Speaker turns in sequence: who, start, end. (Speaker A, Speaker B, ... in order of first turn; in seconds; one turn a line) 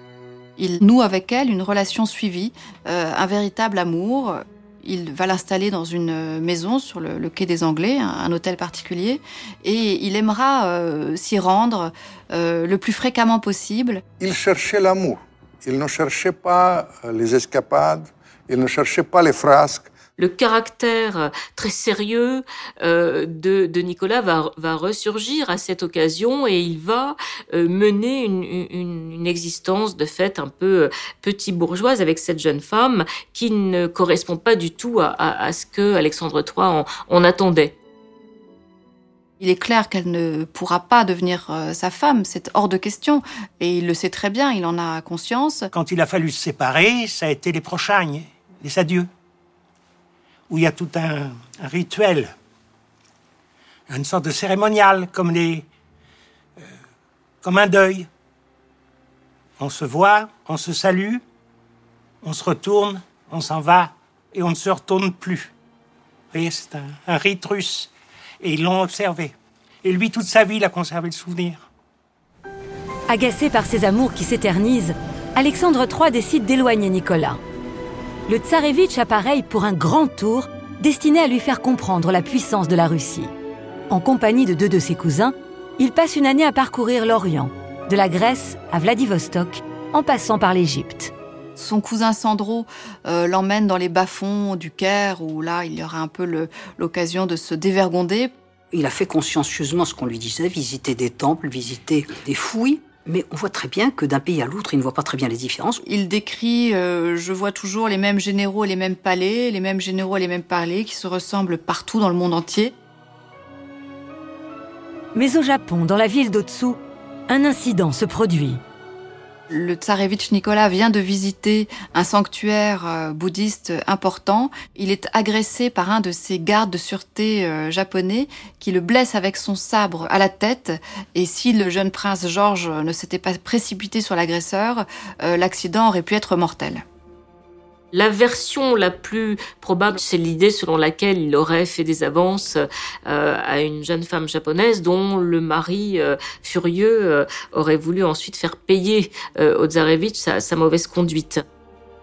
Speaker A: 0.6-14.0
Speaker B: 14.2-19.9
Speaker C: 20.2-37.7
Speaker A: 39.4-45.7
Speaker D: 45.7-49.1
Speaker D: 50.5-52.3
Speaker D: 53.9-55.6
Speaker D: 57.4-58.1
Speaker D: 59.6-61.2
Speaker D: 62.2-65.5
Speaker D: 66.3-67.9
Speaker D: 68.4-71.6
Speaker E: 73.1-77.4
Speaker E: 78.3-83.3
Speaker E: 83.9-91.1
Speaker A: 91.5-98.3
Speaker F: 98.7-105.8
Speaker A: 105.8-112.7
Speaker E: 115.1-116.8
Speaker E: 117.3-118.6
Speaker A: 119.5-136.8
Speaker C: 137.9-151.4